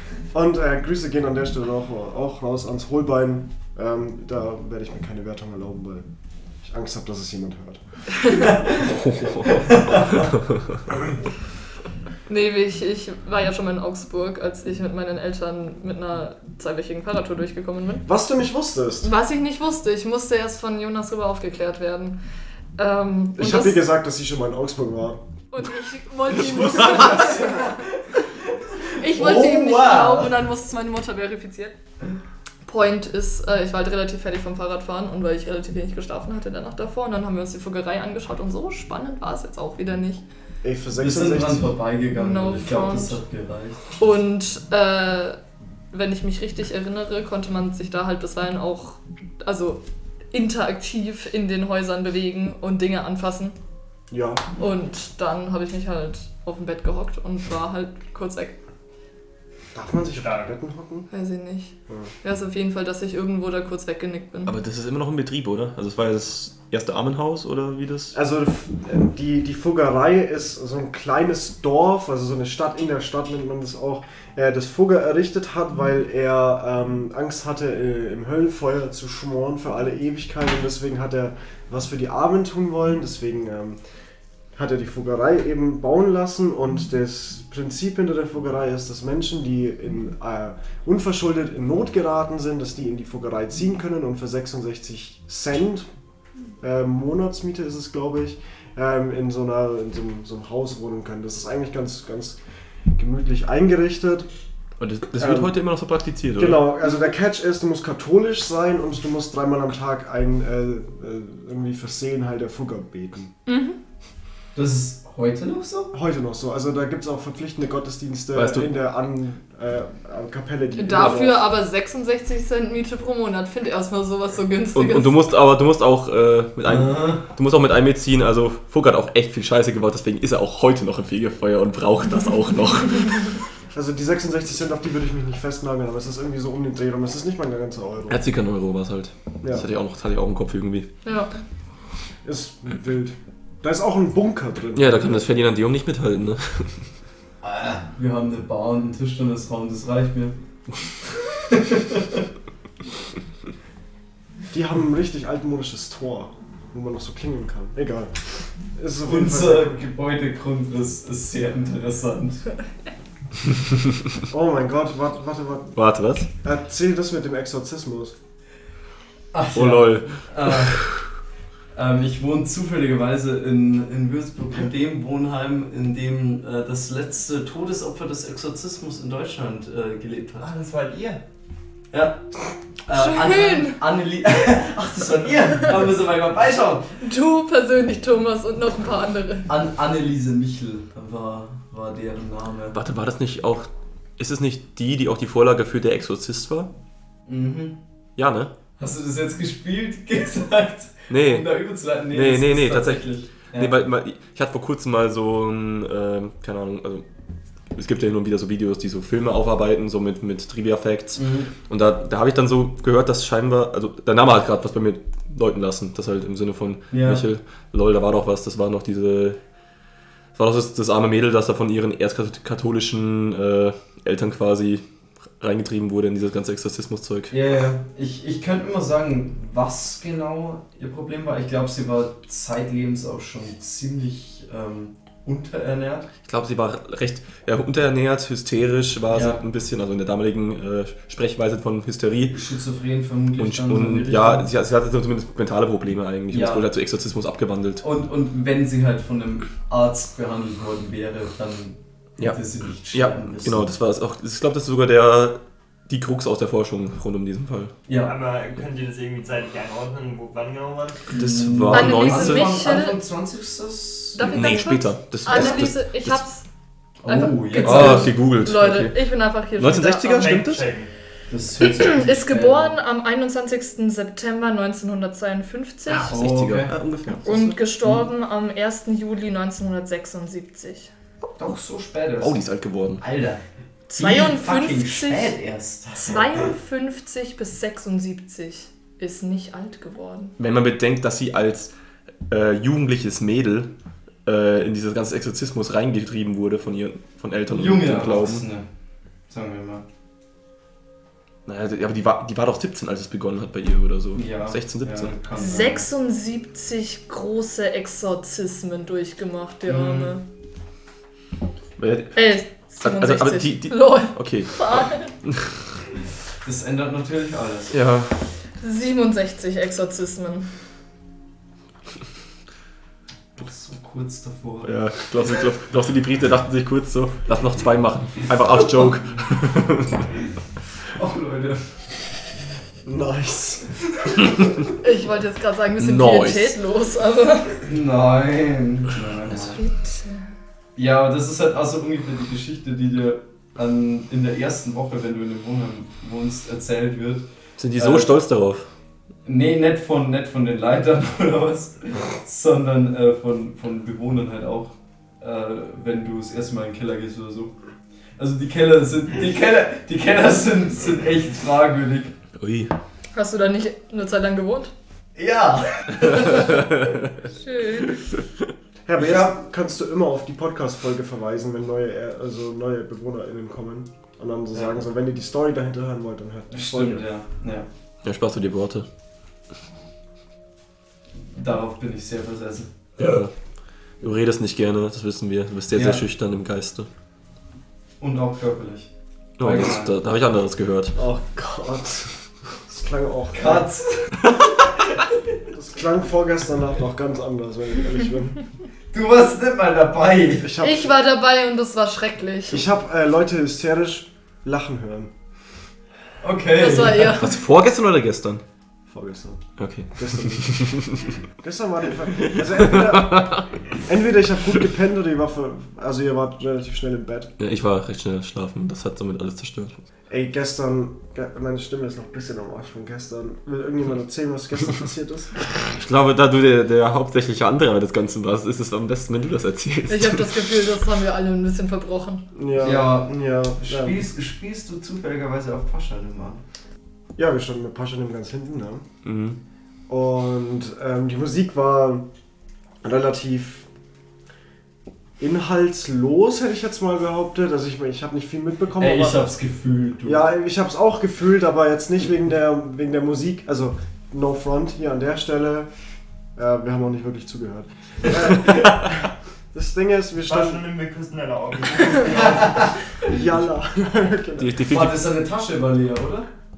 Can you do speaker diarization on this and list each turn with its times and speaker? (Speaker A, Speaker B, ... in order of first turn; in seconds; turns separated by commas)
Speaker A: 0.3-6.0, Speaker A: 6.6-7.8, Speaker B: 8.5-8.8, Speaker B: 9.5-10.3, Speaker C: 12.3-18.1, Speaker A: 18.0-19.1, Speaker C: 19.0-22.2, Speaker C: 22.8-23.9, Speaker A: 23.4-25.2, Speaker C: 25.5-27.8, Speaker D: 26.6-27.1, Speaker B: 27.1-30.3, Speaker C: 29.0-31.8, Speaker C: 32.7-40.2, Speaker A: 40.6-41.7, Speaker B: 41.0-43.9, Speaker C: 42.1-43.2, Speaker C: 44.0-45.4, Speaker C: 45.9-53.5, Speaker A: 54.1-54.4, Speaker C: 54.6-58.6, Speaker A: 59.7-61.1, Speaker E: 60.1-60.5, Speaker C: 61.1-64.5, Speaker D: 64.5-68.1, Speaker A: 68.1-83.8, Speaker A: 84.5-95.9, Speaker A: 96.6-102.4, Speaker A: 102.9-104.3, Speaker D: 104.8-106.7, Speaker A: 105.2-105.5, Speaker A: 106.3-113.3, Speaker C: 113.5-113.8, Speaker B: 114.5-115.9, Speaker A: 115.9-121.5, Speaker D: 118.3-118.7, Speaker C: 120.8-125.2, Speaker D: 124.7-133.3, Speaker B: 126.7-127.2, Speaker A: 133.7-138.2, Speaker D: 138.1-140.9, Speaker C: 141.0-141.4, Speaker A: 142.2-145.3, Speaker D: 144.7-146.8, Speaker B: 147.4-150.3, Speaker B: 151.3-152.2, Speaker A: 154.5-159.8, Speaker B: 159.0-162.4, Speaker A: 164.3-165.7, Speaker D: 165.7-166.3, Speaker A: 166.4-168.1, Speaker B: 169.3-170.8, Speaker D: 169.5-171.0, Speaker B: 171.7-180.5, Speaker E: 180.4-181.2, Speaker B: 181.9-182.2, Speaker B: 182.8-187.0, Speaker C: 182.9-183.8, Speaker C: 187.0-189.5, Speaker B: 189.5-192.8, Speaker D: 192.7-196.7, Speaker B: 197.2-197.8, Speaker D: 198.2-198.5, Speaker B: 198.8-203.8, Speaker D: 201.1-201.5, Speaker D: 202.1-207.0, Speaker D: 207.7-219.4, Speaker B: 211.2-211.5, Speaker B: 216.9-217.2, Speaker D: 220.3-224.8, Speaker D: 225.4-227.3, Speaker B: 227.3-236.1, Speaker D: 236.2-242.4, Speaker B: 239.1-239.4, Speaker B: 242.3-244.5, Speaker D: 243.4-247.8, Speaker B: 246.3-246.7, Speaker B: 247.8-253.7, Speaker D: 252.9-257.7, Speaker B: 257.9-258.1, Speaker E: 258.0-261.1, Speaker B: 261.1-264.4, Speaker D: 261.1-262.6, Speaker C: 261.7-263.0, Speaker C: 264.1-266.4, Speaker D: 264.2-266.2, Speaker B: 265.3-265.6, Speaker B: 267.0-268.1, Speaker C: 267.0-270.3, Speaker D: 267.6-269.0, Speaker D: 269.6-270.7, Speaker E: 270.1-270.9, Speaker B: 271.3-272.8, Speaker C: 271.8-276.1, Speaker D: 275.9-277.6, Speaker B: 276.0-276.7, Speaker C: 277.2-280.9, Speaker B: 281.4-282.4, Speaker D: 282.2-283.0, Speaker B: 283.0-283.4, Speaker C: 283.9-285.3, Speaker B: 283.9-286.5, Speaker C: 286.0-290.3, Speaker D: 290.4-291.7, Speaker D: 292.3-293.7, Speaker D: 294.2-298.4, Speaker B: 297.5-298.6, Speaker B: 299.3-299.8, Speaker D: 301.4-305.1, Speaker B: 304.1-305.9, Speaker C: 305.3-310.2, Speaker B: 309.7-310.2, Speaker D: 311.8-312.2, Speaker C: 312.1-315.1, Speaker D: 312.8-315.5, Speaker B: 316.4-317.8, Speaker D: 317.7-318.1, Speaker C: 318.6-320.5, Speaker B: 323.4-324.8, Speaker D: 324.6-330.0, Speaker B: 330.9-331.9, Speaker A: 332.8-333.7, Speaker C: 334.8-337.6, Speaker D: 335.8-336.5, Speaker B: 337.6-339.6, Speaker C: 339.3-340.2, Speaker B: 340.8-348.1, Speaker D: 347.6-348.7, Speaker B: 349.2-357.5, Speaker B: 358.2-362.1, Speaker D: 362.4-362.7, Speaker C: 363.1-364.7, Speaker B: 365.1-366.7, Speaker C: 367.2-368.1, Speaker A: 368.9-377.0, Speaker B: 369.0-369.3, Speaker B: 376.5-377.7, Speaker D: 378.0-378.9, Speaker B: 381.2-382.7, Speaker D: 383.0-383.3, Speaker D: 384.0-386.9, Speaker B: 385.7-386.0, Speaker B: 388.0-388.9, Speaker D: 389.4-390.9, Speaker B: 389.4-389.9, Speaker A: 390.9-392.1, Speaker A: 392.6-393.6, Speaker B: 393.3-394.2, Speaker A: 395.5-398.4, Speaker B: 398.9-400.5, Speaker A: 400.4-400.9, Speaker C: 400.6-402.6, Speaker A: 402.5-405.1, Speaker B: 406.2-407.2, Speaker C: 406.6-407.4, Speaker D: 407.0-408.4, Speaker A: 408.9-410.8, Speaker D: 409.6-411.1, Speaker A: 411.4-417.3, Speaker D: 412.2-413.6, Speaker D: 417.4-419.8, Speaker A: 420.1-425.3, Speaker D: 425.7-430.4, Speaker C: 429.9-432.2, Speaker A: 432.3-434.0, Speaker B: 432.6-436.4, Speaker A: 437.1-438.9, Speaker D: 439.0-439.4, Speaker A: 439.9-442.1, Speaker A: 442.8-443.7, Speaker A: 445.2-449.3, Speaker B: 448.8-450.3, Speaker A: 450.0-455.7, Speaker A: 456.4-460.7, Speaker E: 460.2-462.7, Speaker B: 462.3-462.7, Speaker A: 463.1-464.7, Speaker D: 464.4-465.0, Speaker B: 464.6-466.3